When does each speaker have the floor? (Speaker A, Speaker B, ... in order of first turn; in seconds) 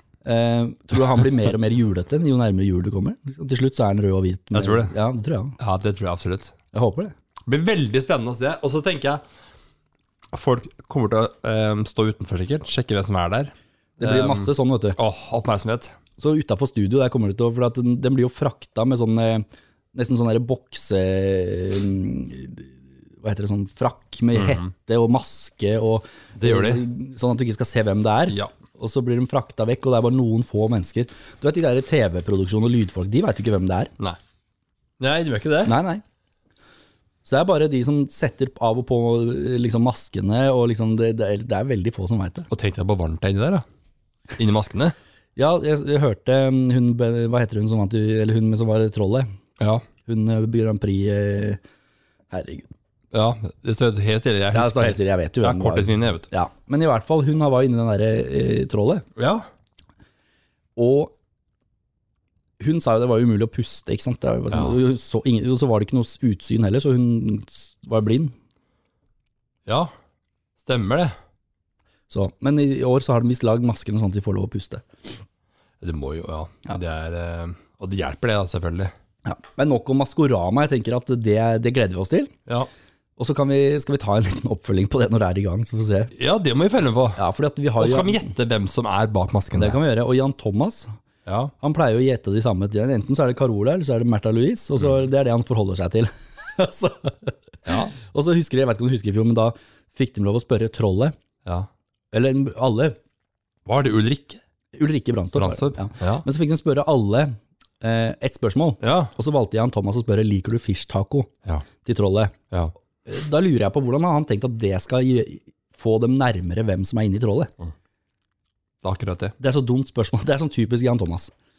Speaker A: 0.2-5.6, 6.7-7.1, 14.0-15.0, 16.2-33.9, 35.6-36.0, 37.2-42.5, 45.4-49.3, 50.0-51.6, 52.3-52.7, 54.5-59.1, 60.8-61.1, 62.6-68.3, 72.1-74.8, 79.2-82.3, 83.2-86.1, 87.2-88.3, 89.5-90.9, 91.6-97.4, 97.9-101.2, 102.1-103.0, 104.7-111.3, 111.8-112.3, 113.0-117.5, 119.4-121.3
Speaker B: 4.5-4.9, 5.6-6.5, 7.5-9.2, 10.3-16.0, 24.3-24.7, 26.4-26.8, 28.3-28.5, 35.0-35.8, 42.5-43.6, 44.4-45.0, 49.6-49.9, 53.1-56.3, 59.2-59.5, 64.5-64.8, 69.7-69.9, 70.6-71.2, 75.8-78.9, 86.1-87.2, 87.8-89.8, 91.3-91.5, 97.7-98.0, 103.7-104.4, 105.3-106.2, 108.8-109.1, 118.8-119.3